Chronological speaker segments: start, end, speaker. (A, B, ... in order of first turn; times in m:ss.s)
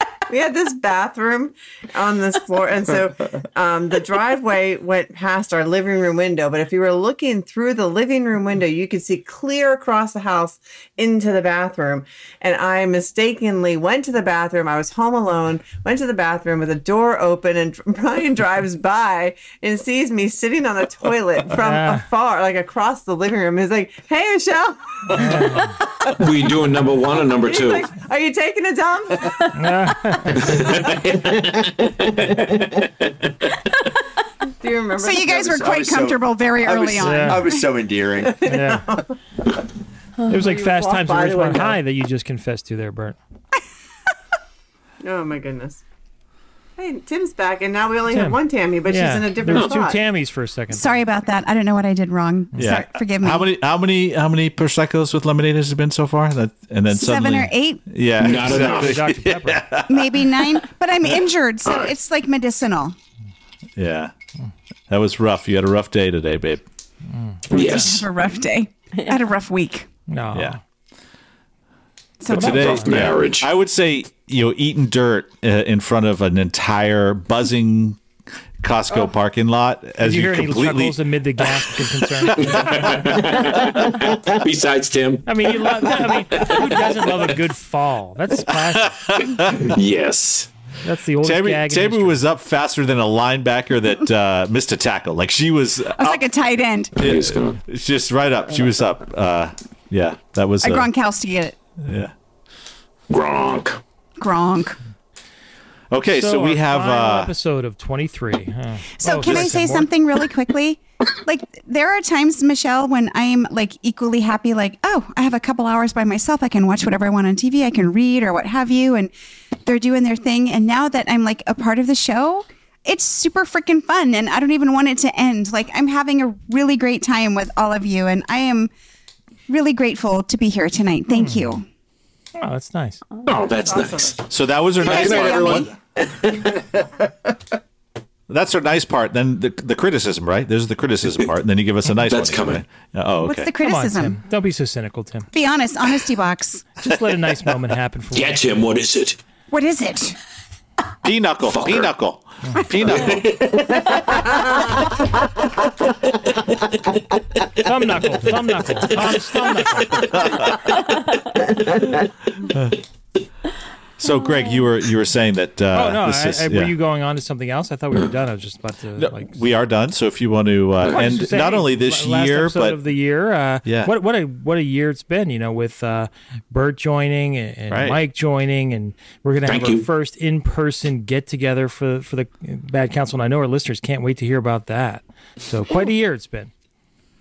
0:00.3-0:29.5 A
0:21.6-0:22.0 B
0:25.2-0:25.7 B
0:26.2-0:27.9 C
0:29.5-0:30.6 B
0:30.5-0:31.3 C
0:30.6-0:31.1 A
0:34.6-0:35.7 A
0:35.0-0:37.7 D
0:35.3-0:38.5 E
0:37.0-0:37.4 B
0:38.4-0:39.0 A
0:38.4-0:38.8 B
0:40.3-0:41.8 A
0:40.3-0:43.2 B
0:45.0-0:45.8 A
0:46.8-0:50.0 A
0:48.1-0:50.9 B
0:49.5-0:49.8 C
0:50.7-0:53.5 D
0:52.6-1:00.6 F
0:56.9-0:57.8 D
0:58.2-0:59.0 C
0:58.4-0:59.6 B
0:59.9-1:02.9 D
1:01.6-1:01.9 C
1:03.8-1:04.1 F
1:04.9-1:06.6 F
1:07.3-1:07.9 B
1:07.5-1:08.0 C
1:07.5-1:09.9 D
1:10.1-1:10.6 B
1:12.2-1:12.8 D
1:12.3-1:12.9 B
1:12.3-1:18.0 F
1:12.4-1:13.5 C
1:18.6-1:21.0 F
1:20.0-1:23.1 B
1:22.4-1:26.7 C
1:22.4-1:22.8 F
1:25.2-1:28.9 B
1:28.5-1:29.7 F
1:29.5-1:30.5 C
1:30.8-1:32.2 B
1:31.2-1:36.3 F
1:35.9-1:36.9 D
1:37.0-1:37.6 C
1:37.0-1:40.9 F
1:40.6-1:41.6 D
1:41.8-1:42.1 F
1:43.1-1:43.8 C
1:44.2-1:44.8 D
1:45.9-1:47.3 F
1:46.1-1:49.9 B
1:49.0-1:59.1 D
1:59.6-2:08.7 D
2:09.5-2:11.6 D
2:11.1-2:11.5 B
2:12.4-2:13.0 B
2:13.2-2:14.2 C
2:13.5-2:14.2 A
2:14.3-2:15.7 F
2:14.8-2:15.7 C
2:14.8-2:15.7 D
2:18.3-2:23.5 F
2:21.9-2:22.6 C
2:23.2-2:24.2 D
2:23.6-2:25.3 B
2:25.3-2:26.7 D
2:26.8-2:28.4 B
2:28.1-2:29.2 C
2:29.5-2:30.2 D
2:31.0-2:33.5 F
2:31.4-2:31.9 C
2:32.8-2:33.5 C
2:37.6-2:40.2 B
2:40.2-2:40.7 F
2:44.0-2:46.7 F
2:45.7-2:49.4 B
2:49.0-2:52.8 F
2:50.8-3:06.5 B
2:53.6-2:53.9 F
2:57.7-2:58.0 F
2:59.4-2:59.8 C